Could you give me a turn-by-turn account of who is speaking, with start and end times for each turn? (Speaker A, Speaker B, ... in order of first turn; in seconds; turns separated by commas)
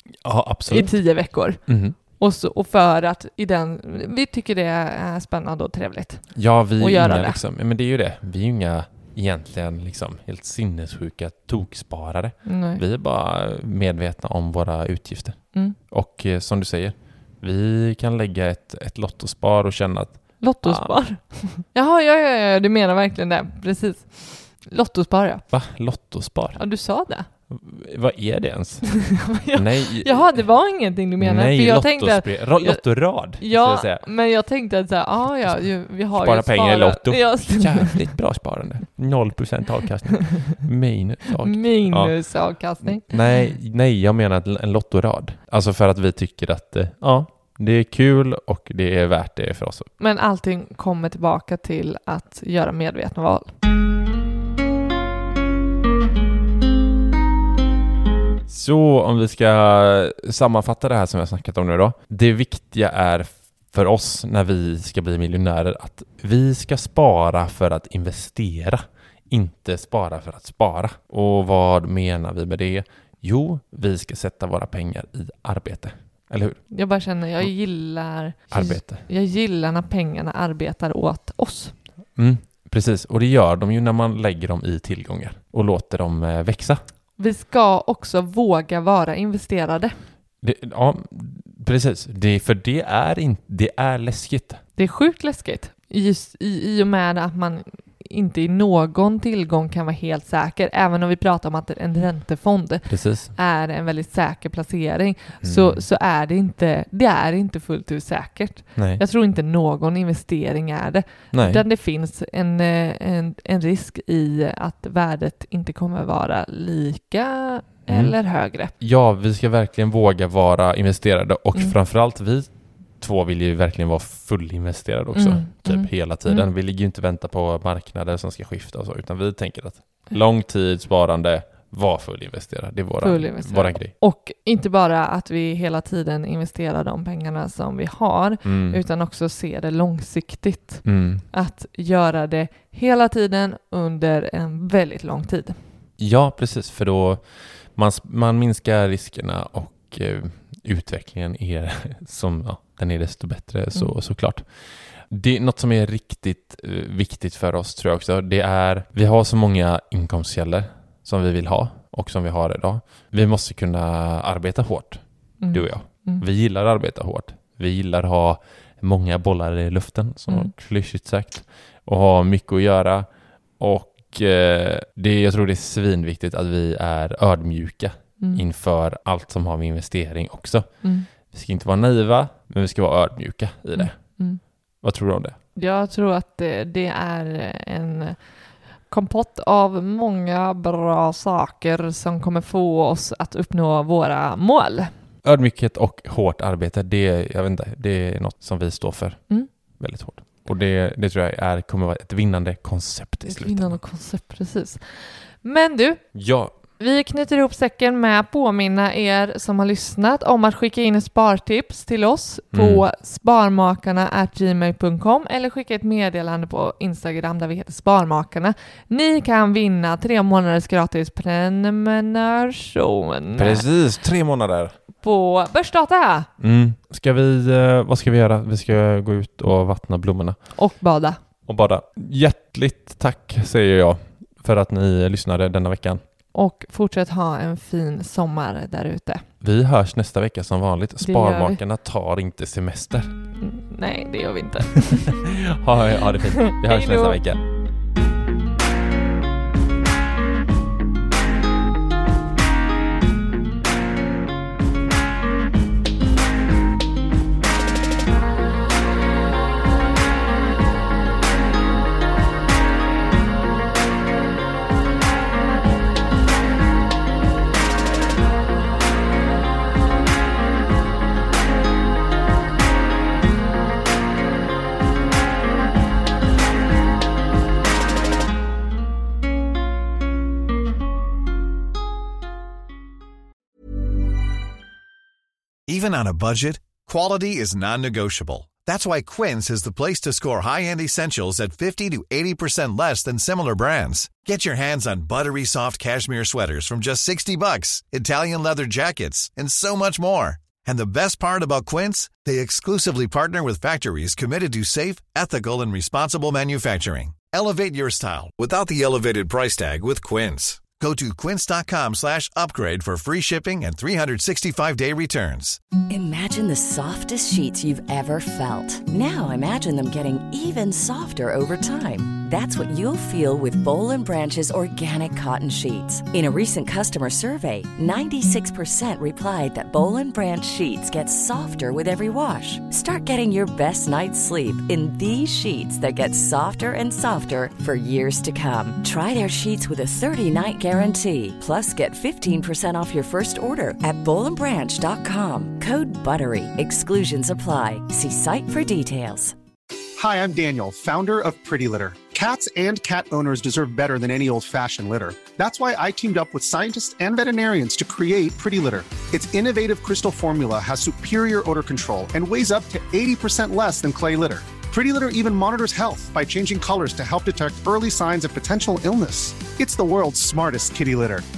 Speaker A: 0.2-2.0, Speaker B: 0.7-7.4, Speaker A: 6.3-20.9, Speaker B: 12.4-12.8, Speaker B: 20.4-25.4, Speaker A: 25.5-26.6, Speaker B: 26.6-27.3, Speaker A: 27.5-30.4, Speaker B: 29.0-38.1, Speaker A: 31.2-34.0, Speaker A: 35.3-42.3, Speaker B: 41.4-43.2, Speaker A: 42.8-49.9, Speaker B: 50.0-53.5, Speaker A: 58.5-76.6, Speaker B: 76.7-81.7, Speaker A: 78.5-79.0, Speaker A: 82.2-86.8, Speaker B: 87.2-90.0, Speaker A: 90.4-94.6, Speaker B: 94.8-118.7, Speaker A: 102.9-103.3, Speaker A: 105.4-105.8, Speaker A: 108.8-109.0, Speaker A: 111.3-111.6, Speaker A: 117.9-118.1, Speaker A: 118.7-133.9, Speaker B: 125.1-126.5, Speaker B: 133.0-145.6, Speaker A: 138.4-138.8, Speaker A: 140.8-141.2, Speaker A: 146.0-184.2, Speaker B: 165.4-166.2, Speaker B: 180.8-181.1, Speaker B: 183.7-184.4, Speaker A: 184.8-185.3, Speaker B: 185.6-188.2, Speaker B: 188.9-194.9, Speaker A: 195.2-203.8, Speaker B: 203.2-206.1, Speaker A: 206.1-206.6, Speaker B: 206.8-223.7, Speaker A: 212.5-212.8, Speaker A: 223.3-224.8, Speaker B: 225.0-226.3, Speaker A: 226.4-230.4, Speaker B: 230.6-231.2, Speaker A: 231.4-236.0, Speaker B: 236.3-239.2, Speaker A: 239.4-243.1, Speaker B: 241.0-241.6, Speaker B: 243.4-245.2, Speaker A: 245.3-247.4, Speaker B: 246.5-247.2, Speaker C: 285.7-315.6, Speaker D: 315.9-349.3, Speaker E: 350.0-371.2